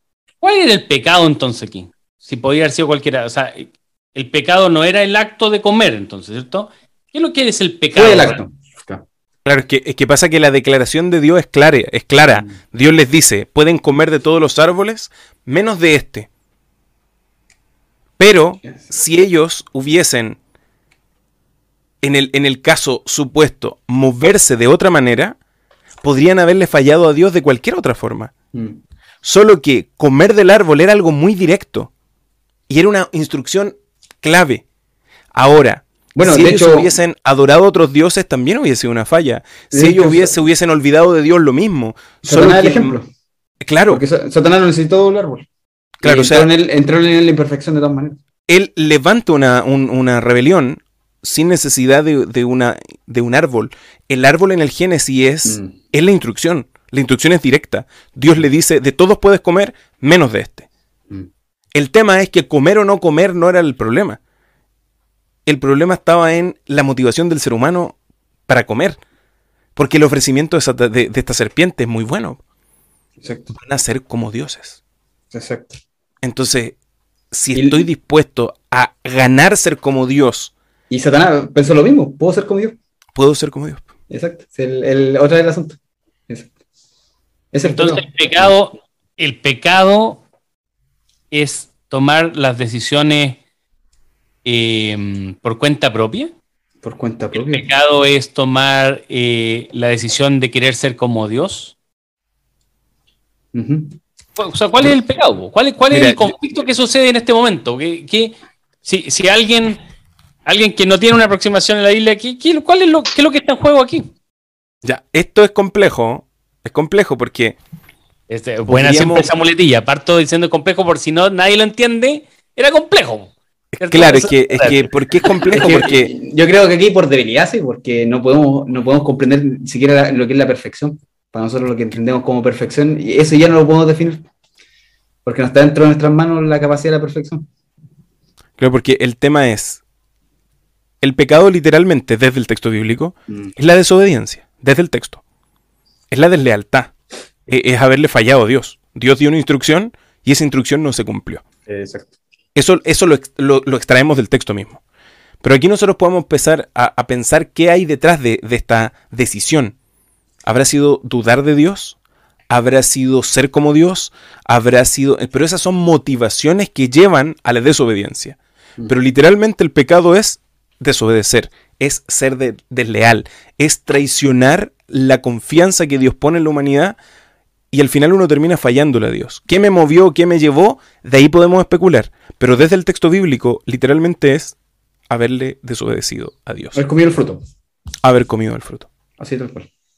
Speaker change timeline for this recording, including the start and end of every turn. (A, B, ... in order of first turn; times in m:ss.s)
0:00.4-0:08.4 A
0:07.9-0:09.0 B
0:09.4-0:16.3 C
0:18.2-0:20.4 C
0:22.0-0:25.4 C
0:26.0-0:28.3 C
0:28.5-0:28.8 B
0:29.2-0:31.9 C
0:32.7-0:34.6 C
0:35.3-0:43.0 C
0:36.2-0:36.9 B
0:39.7-0:40.4 B
0:42.2-0:43.1 B
0:43.6-0:44.0 C
0:43.9-0:45.5 B
0:46.0-0:46.5 C
0:46.0-0:48.2 B
0:48.5-1:00.7 C
0:55.5-0:55.8 B
1:01.7-1:04.2 C
1:05.5-1:08.0 C
1:08.5-1:09.0 C
1:09.8-1:12.4 C
1:13.2-1:13.5 B
1:13.6-1:14.8 C
1:15.3-1:15.8 B
1:16.2-1:16.8 C
1:17.3-1:20.5 C
1:17.5-1:17.9 B
1:20.9-1:22.8 B
1:23.2-1:23.9 C
1:24.1-1:25.8 B
1:27.5-1:28.5 B
1:27.6-1:30.2 A
1:31.3-1:33.4 A
1:34.4-1:36.3 A
1:36.8-1:37.7 B
1:37.4-1:41.8 A
1:43.5-1:44.0 B
1:44.4-1:49.8 A
1:45.9-1:46.3 C
1:50.5-1:54.1 A
1:54.8-1:57.6 C
1:58.3-2:04.9 A
1:58.7-1:59.3 C
2:03.7-2:06.1 C
2:05.5-2:14.3 B
2:15.2-2:17.5 B
2:18.6-2:19.8 C
2:21.0-2:25.2 C
2:26.1-2:26.9 C
2:27.5-2:31.4 C
2:31.7-2:32.1 B
2:32.6-2:34.8 C
2:35.4-2:39.8 C
2:40.5-2:42.0 C
2:42.5-2:57.0 C
2:57.7-3:04.6 C
3:05.1-3:06.8 C
3:06.7-3:07.4 B
3:08.0-3:08.9 C
3:09.2-3:09.7 B